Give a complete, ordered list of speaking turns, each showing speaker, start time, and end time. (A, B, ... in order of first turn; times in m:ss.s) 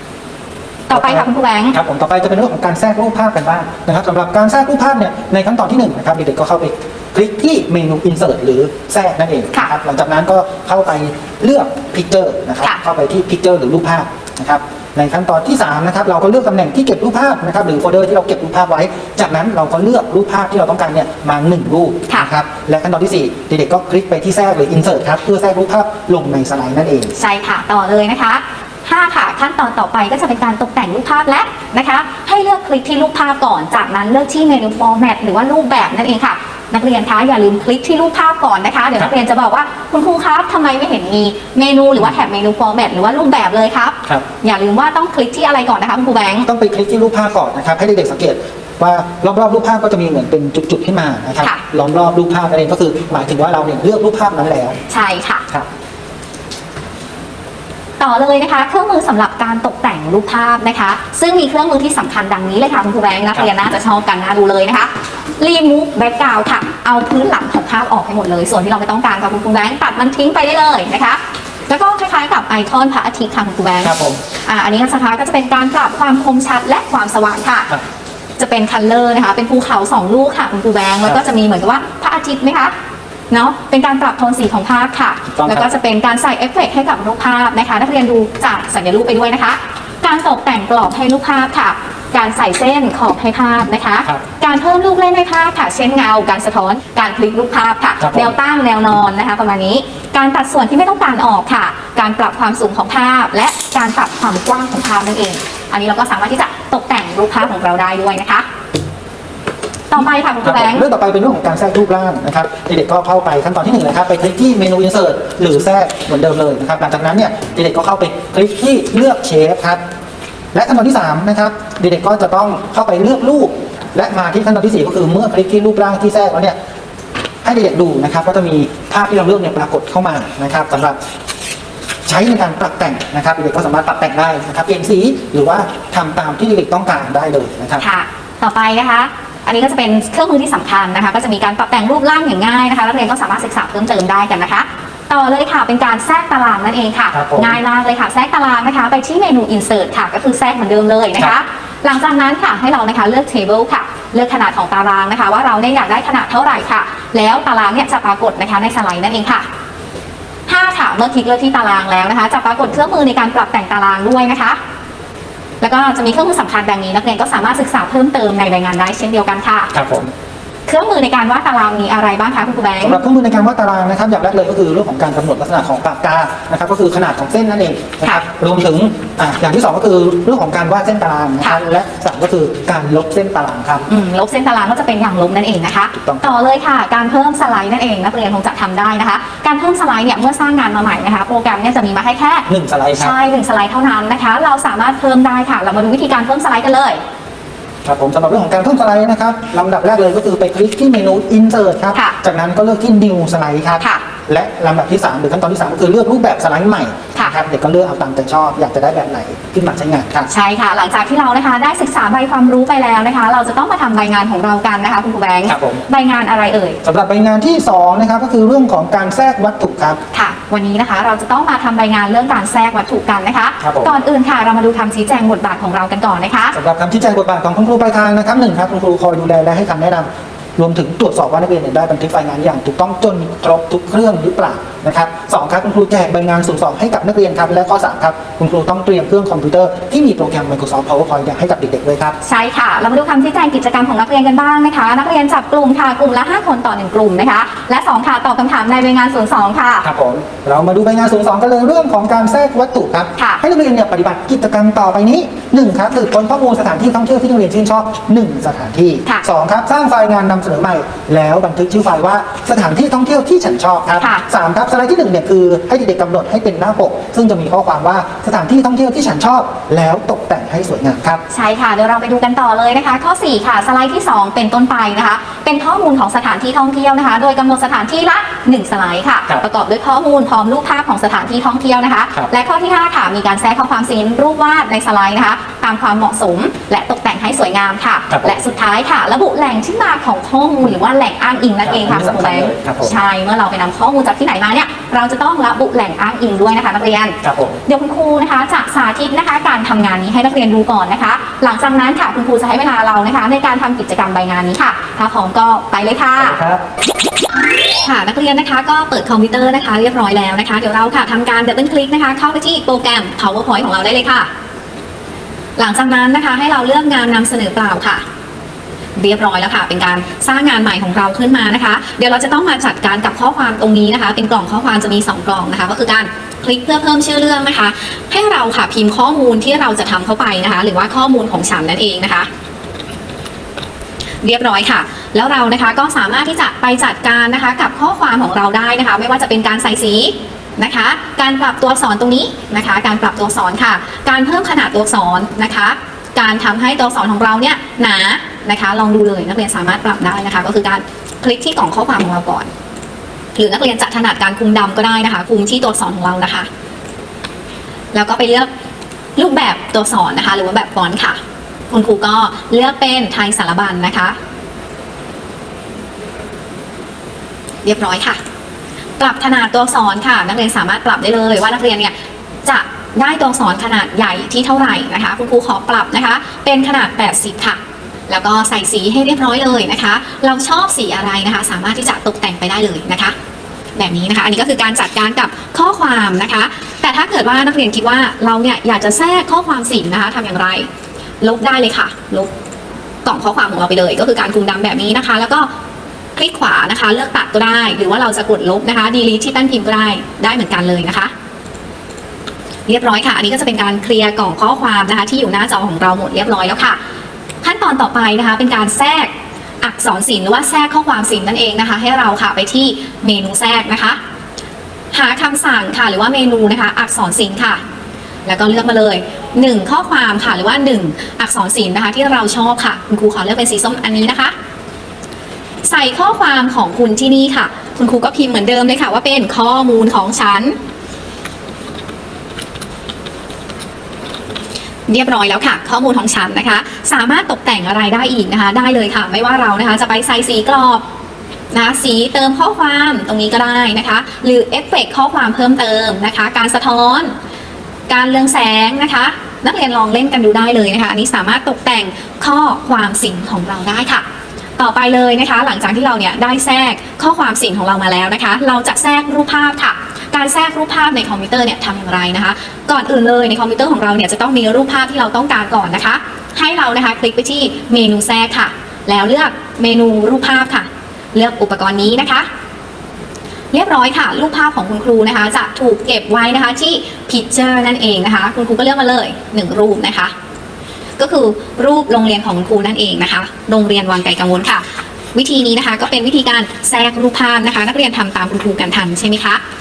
0:00.9-0:01.8 A
0:00.9-0:27.1 B
0:27.2-0:46.5 A
0:46.5-0:54.8 B
0:54.9-0:55.4 A
0:58.0-1:17.7 A
1:13.8-1:14.2 B
1:18.4-1:22.7 A
1:23.3-1:48.5 A
1:25.4-1:25.7 B
1:38.0-1:38.3 B
1:49.9-1:50.8 A
1:50.0-1:59.8 B
2:00.5-2:06.6 B
2:07.4-2:11.0 B
2:12.1-2:17.8 B
2:17.8-2:39.5 A
2:27.1-2:27.6 B
2:40.5-2:44.6 A
2:45.6-2:49.7 A
2:49.7-2:50.1 B
2:50.7-2:53.0 A
2:52.8-3:03.9 B
3:03.9-3:17.0 A
3:05.9-3:06.3 B
3:12.5-3:13.1 B
3:17.8-3:30.3 B
3:23.8-3:24.0 A
3:30.3-3:36.8 A
3:35.5-3:35.8 B
3:36.8-3:40.0 B
3:40.1-3:46.6 A
3:43.6-3:44.0 B
3:46.5-4:02.2 B
4:02.2-4:09.9 A
4:09.8-4:31.2 B
4:13.2-4:13.4 A
4:31.3-5:06.4 A
4:48.1-4:48.4 B
4:51.6-4:53.0 B
4:57.2-4:57.6 B
5:06.2-5:06.6 B
5:07.8-5:14.3 A
5:15.6-5:18.0 A
5:19.0-5:32.3 A
5:34.2-5:52.5 A
5:53.4-5:56.5 A
5:57.9-5:58.5 A
5:59.2-6:01.2 A
6:01.7-6:04.2 A
6:07.6-6:08.2 A
6:09.0-6:11.9 A
6:12.4-6:23.1 A
6:23.8-6:30.7 A
6:31.2-6:32.3 A
6:33.0-6:35.5 A
6:36.2-6:41.1 A
6:42.7-6:46.8 A
6:47.4-6:49.1 A
6:49.6-6:54.0 A
6:54.9-6:57.6 A
6:58.3-7:04.3 A
7:05.7-7:10.6 A
7:14.9-7:20.8 A
7:21.5-7:27.1 A
7:27.9-7:34.0 A
7:34.6-7:52.3 A
7:53.5-8:00.1 A
8:01.0-8:09.4 A